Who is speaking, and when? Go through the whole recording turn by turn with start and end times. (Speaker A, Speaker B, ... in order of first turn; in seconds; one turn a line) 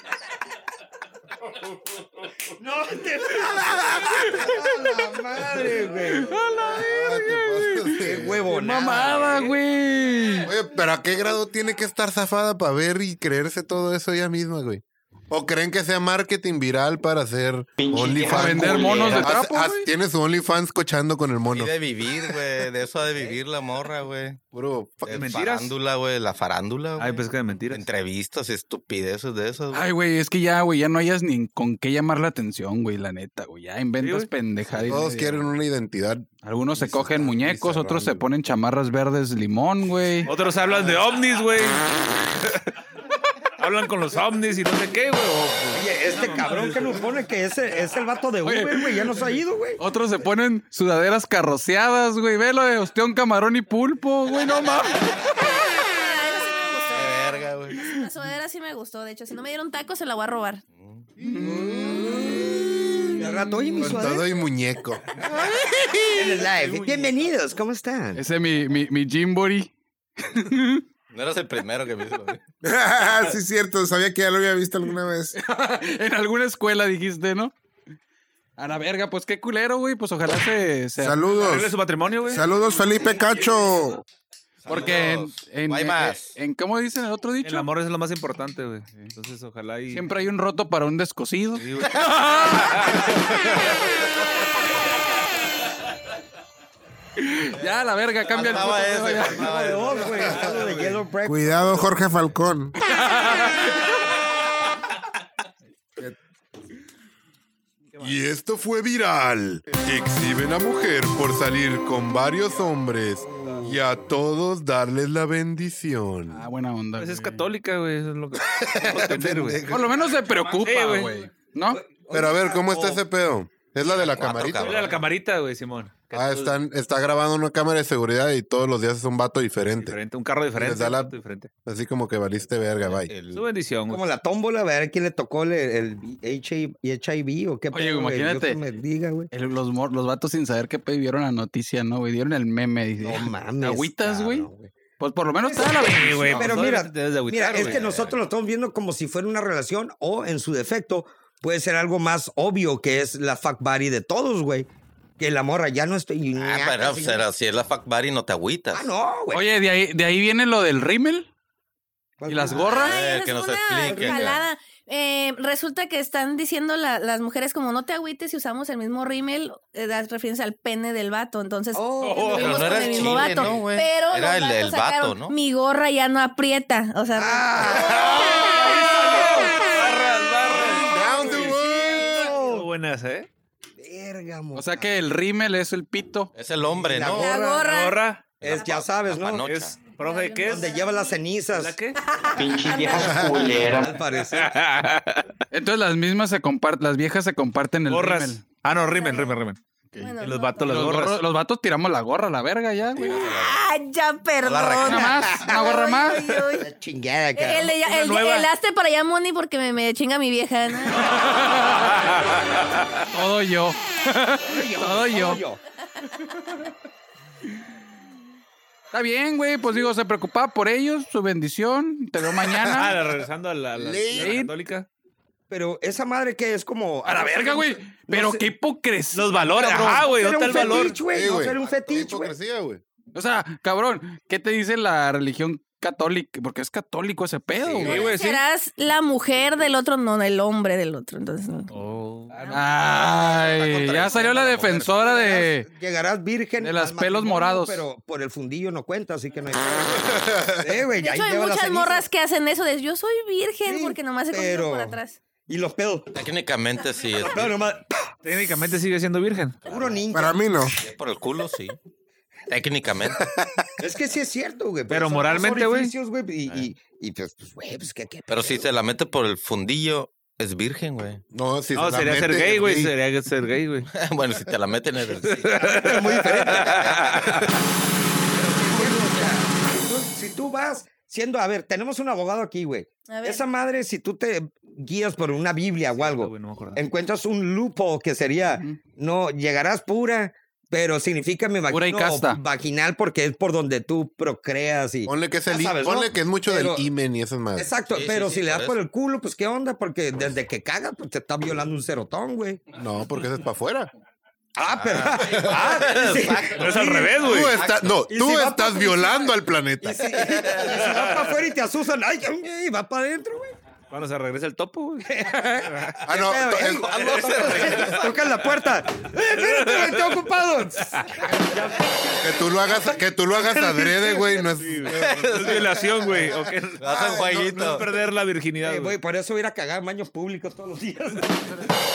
Speaker A: 2.6-6.4
Speaker B: 6.1-8.2
Speaker C: 6.7-8.4
Speaker A: 8.0-9.3
Speaker D: 8.5-9.6
Speaker B: 8.7-10.5
Speaker C: 10.4-21.8
Speaker E: 17.8-19.3
Speaker B: 18.3-19.9
Speaker F: 21.5-24.4
Speaker C: 24.5-25.3
Speaker F: 25.1-29.9
Speaker D: 25.1-25.7
Speaker D: 27.0-27.8
Speaker B: 29.7-35.5
Speaker D: 34.0-34.3
Speaker F: 34.7-35.0
Speaker C: 34.9-38.2
Speaker B: 36.4-40.3
Speaker D: 40.3-42.6
Speaker D: 43.6-47.1
Speaker A: 45.8-49.8
Speaker B: 48.4-49.2
Speaker B: 49.8-55.3
Speaker G: 55.5-60.6
Speaker F: 56.9-57.8
Speaker F: 60.8-61.1
Speaker B: 61.2-62.3
Speaker C: 61.3-63.2
Speaker A: 61.7-64.3
Speaker C: 63.8-66.5
Speaker A: 66.1-68.2
Speaker B: 68.1-70.8
Speaker F: 71.1-72.4
Speaker H: 72.6-75.4
Speaker B: 75.3-77.5
Speaker B: 78.6-81.3
Speaker H: 81.0-84.0
Speaker D: 81.4-82.5
Speaker F: 84.6-86.4
Speaker B: 84.7-87.7
Speaker D: 87.4-90.1
Speaker B: 89.9-93.0
Speaker D: 91.6-93.8
Speaker F: 91.7-92.2
Speaker B: 97.2-99.5
Speaker F: 97.6-100.8
Speaker A: 99.4-101.8
Speaker H: 101.2-102.8
Speaker B: 102.9-103.9
Speaker D: 107.9-108.2
Speaker C: 108.0-116.5
Speaker A: 113.4-113.7
Speaker B: 116.3-117.5
Speaker D: 117.0-119.7
Speaker C: 118.5-119.9
Speaker B: 119.7-121.8
Speaker D: 120.5-121.1
Speaker A: 121.7-123.0
Speaker C: 122.1-125.0
Speaker F: 123.8-125.0
Speaker D: 124.5-126.6
Speaker C: 126.1-130.0
Speaker D: 129.8-131.5
Speaker C: 130.6-133.1
Speaker F: 132.8-133.5
Speaker D: 133.3-134.0
Speaker A: 133.9-139.3
Speaker B: 137.7-138.6
Speaker B: 139.3-144.5
Speaker A: 143.0-144.7
Speaker B: 145.0-146.8
Speaker A: 145.5-157.2
Speaker D: 145.7-147.9
Speaker F: 147.4-148.2
Speaker F: 156.4-158.9
Speaker A: 158.7-159.5
Speaker B: 159.3-161.3
Speaker A: 162.2-162.9
Speaker B: 162.3-162.9
Speaker F: 162.5-164.4
Speaker G: 162.8-179.6
Speaker A: 163.8-164.3
Speaker A: 171.8-173.6
Speaker D: 172.1-172.4
Speaker F: 172.3-175.3
Speaker A: 177.1-179.8
Speaker D: 178.2-183.3
Speaker A: 180.4-182.7
Speaker C: 180.8-182.3
Speaker A: 183.8-184.9
Speaker B: 184.5-186.3
Speaker F: 186.3-187.5
Speaker A: 186.7-187.8
Speaker G: 187.2-188.7
Speaker D: 187.6-188.2
Speaker F: 188.4-189.8
Speaker A: 188.4-189.5
Speaker D: 189.5-190.8
Speaker G: 190.0-191.2
Speaker A: 190.5-191.8
Speaker D: 191.6-192.0
Speaker G: 192.0-193.3
Speaker E: 192.4-193.9
Speaker A: 193.7-194.5
Speaker D: 194.3-195.3
Speaker B: 195.5-198.4
Speaker D: 197.9-199.6
Speaker G: 198.9-199.3
Speaker B: 199.9-203.3
Speaker G: 200.0-200.9
Speaker D: 200.2-201.2
Speaker F: 202.8-203.7
Speaker G: 203.1-206.7
Speaker F: 204.4-205.4
Speaker B: 204.8-206.4
Speaker A: 206.6-207.8
Speaker G: 207.3-211.2
Speaker D: 207.8-208.5
Speaker D: 211.7-212.6
Speaker B: 213.1-215.4
Speaker A: 214.4-215.6
Speaker B: 218.9-223.0
Speaker D: 222.6-224.9
Speaker H: 223.9-224.3
Speaker B: 224.1-224.5
Speaker A: 225.5-228.5
Speaker B: 227.0-229.8
Speaker D: 229.1-231.0
Speaker A: 229.4-232.4
Speaker C: 230.6-232.8
Speaker B: 233.1-238.1
Speaker F: 237.7-237.9
Speaker D: 237.8-238.4
Speaker G: 238.1-241.7
Speaker D: 241.7-242.4
Speaker G: 242.3-242.6
Speaker B: 242.5-245.7
Speaker F: 243.0-245.1
Speaker A: 244.9-252.1
Speaker B: 246.6-247.8
Speaker C: 250.2-250.6
Speaker G: 251.0-255.2
Speaker A: 253.7-256.1
Speaker F: 256.1-257.7
Speaker A: 257.1-258.1
Speaker D: 258.2-259.6
Speaker F: 259.6-260.1
Speaker A: 259.7-260.5
Speaker H: 260.1-260.8
Speaker F: 260.7-261.8
Speaker F: 262.5-263.3
Speaker A: 263.8-268.7
Speaker D: 264.9-265.9
Speaker F: 268.3-271.2
Speaker C: 271.3-272.9
Speaker D: 271.8-273.9
Speaker F: 273.9-275.6
Speaker D: 275.2-277.4
Speaker A: 275.3-277.2
Speaker F: 276.6-277.5
Speaker A: 278.4-296.9
Speaker G: 283.1-283.4
Speaker D: 286.0-286.8
Speaker B: 291.7-292.4
Speaker C: 295.1-297.7
Speaker A: 297.6-302.6
Speaker F: 297.9-298.8
Speaker C: 302.8-303.9
Speaker A: 304.6-307.2
Speaker F: 304.7-307.9
Speaker D: 306.0-307.6
Speaker C: 307.1-310.4
Speaker A: 308.1-313.5
Speaker D: 310.7-311.3
Speaker D: 313.9-315.9
Speaker A: 315.1-322.7
Speaker C: 316.1-317.3
Speaker F: 316.8-318.1
Speaker D: 317.4-318.0
Speaker D: 319.3-320.3
Speaker D: 320.9-321.1
Speaker C: 322.2-326.3
Speaker A: 323.4-324.6
Speaker D: 324.6-326.9
Speaker F: 324.9-325.8
Speaker F: 326.8-327.9
Speaker C: 326.8-327.9
Speaker D: 327.5-329.0
Speaker A: 328.6-331.6